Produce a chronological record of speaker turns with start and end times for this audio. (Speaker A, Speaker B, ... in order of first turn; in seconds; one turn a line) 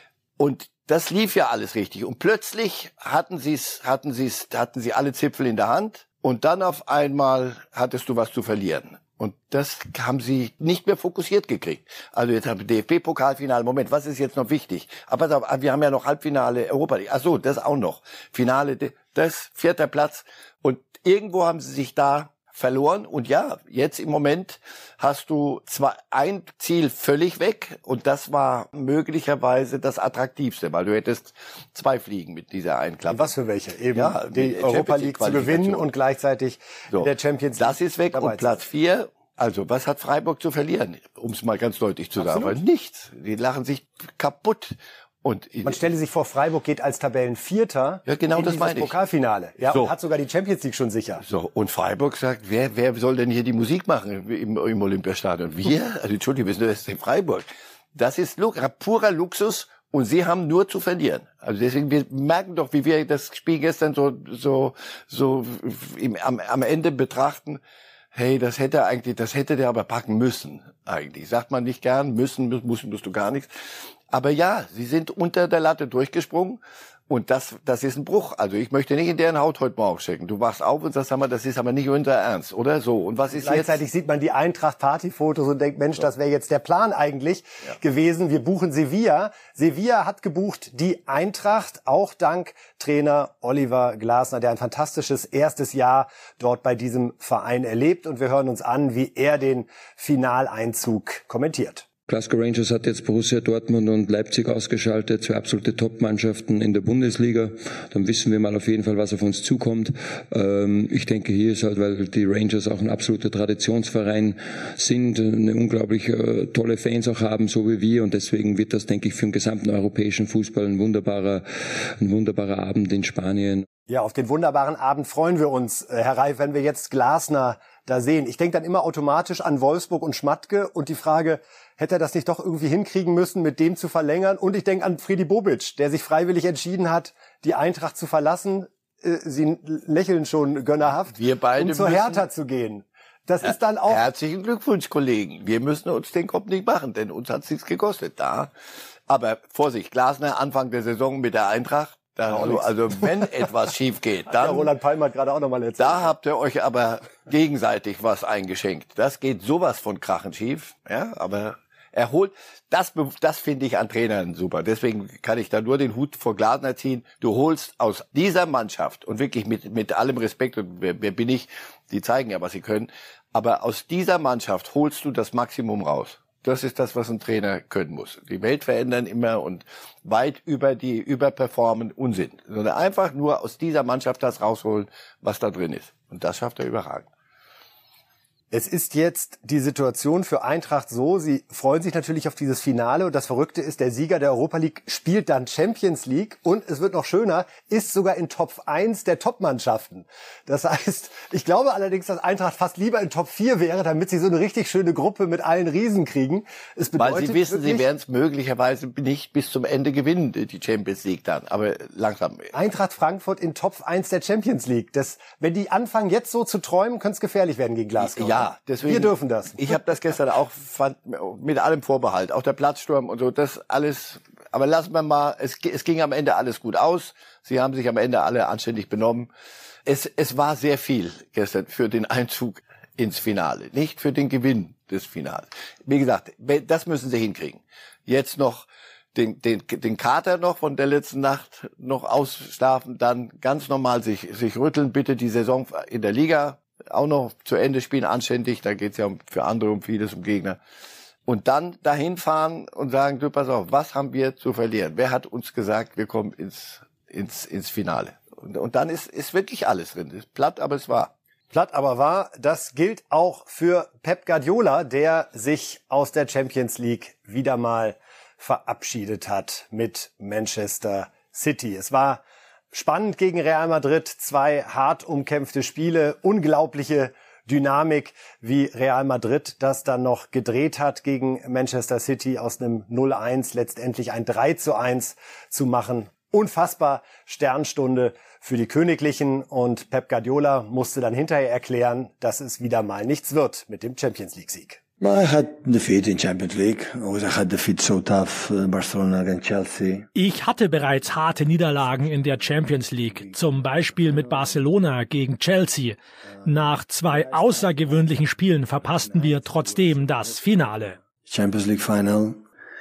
Speaker A: 0.4-33.3
Speaker B: 33.1-38.5
Speaker A: 33.9-35.9
Speaker A: 36.9-45.8
Speaker B: 42.2-42.6
Speaker B: 45.6-51.2
Speaker A: 48.1-49.0
Speaker A: 49.6-49.9
Speaker A: 51.2-67.6
Speaker A: 68.1-73.5
Speaker A: 74.1-83.8
Speaker B: 83.3-101.9
Speaker C: 102.1-123.7
Speaker B: 123.9-144.0
Speaker A: 141.1-142.3
Speaker A: 143.9-148.5
Speaker A: 149.1-154.7
Speaker B: 152.3-153.5
Speaker B: 154.3-156.1
Speaker A: 155.8-187.1
Speaker B: 188.5-207.8
Speaker A: 207.0-212.5
Speaker B: 212.5-219.8
Speaker A: 218.0-229.3
Speaker A: 229.9-250.6
Speaker A: 251.3-261.1
Speaker B: 261.5-294.8
Speaker D: 295.0-300.1
Speaker E: 300.1-311.0
Speaker D: 301.3-304.6
Speaker D: 306.4-312.4